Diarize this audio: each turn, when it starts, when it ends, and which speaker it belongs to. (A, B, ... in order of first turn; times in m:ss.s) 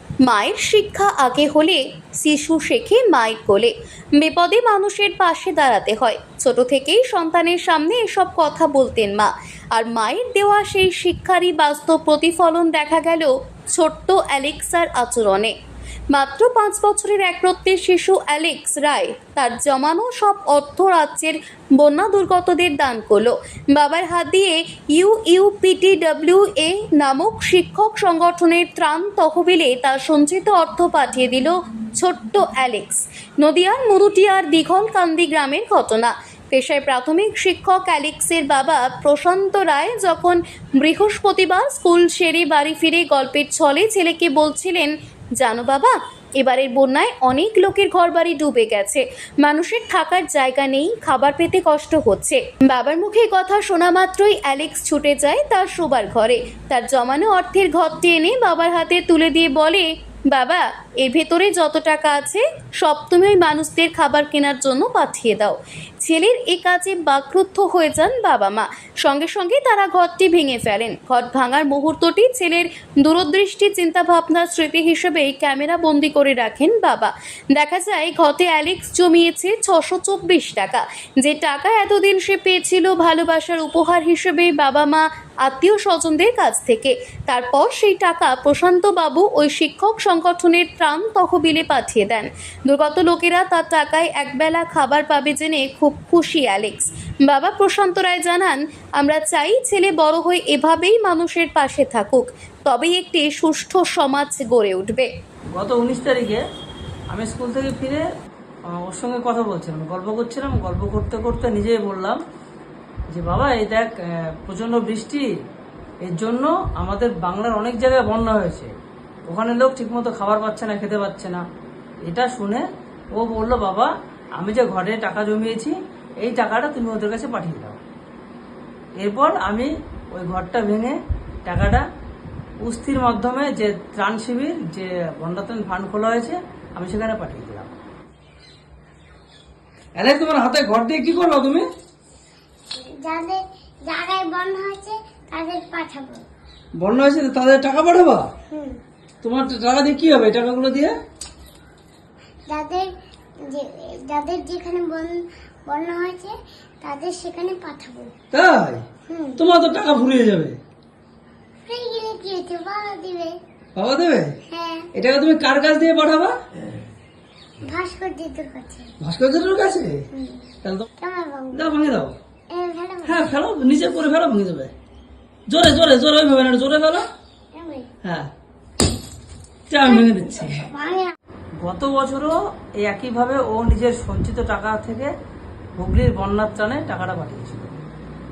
0:00.2-0:15.5 A
0:16.1-1:45.1 A
1:45.5-1:46.4 B
1:47.1-1:48.0 B
1:48.8-1:52.2 B
1:53.1-1:55.2 B
1:56.0-1:58.7 B
1:59.3-2:01.4 B
2:02.0-2:07.8 B
2:09.0-2:11.8 B
2:12.6-2:17.7 B
2:20.0-2:21.6 B
2:23.0-2:26.2 C
2:26.8-2:28.3 B
2:28.5-2:28.8 C
2:29.2-2:30.9 B
2:32.5-2:32.9 C
2:33.4-2:38.1 C
2:38.3-2:38.8 B
2:39.1-2:39.4 C
2:39.4-2:40.6 B
2:41.6-2:43.3 C
2:43.8-2:44.4 B
2:44.5-2:44.9 C
2:44.9-2:46.4 B
2:47.6-2:48.9 C
2:49.0-2:50.0 B
2:50.1-2:51.7 C
2:51.5-2:52.1 B
2:52.5-2:53.3 C
2:53.0-2:54.7 B
2:55.5-2:57.1 B
2:57.5-2:57.9 C
2:58.0-2:58.3 B
2:59.7-3:00.7 B
2:59.8-3:01.1 C
3:01.6-3:05.1 B
3:05.8-3:07.7 B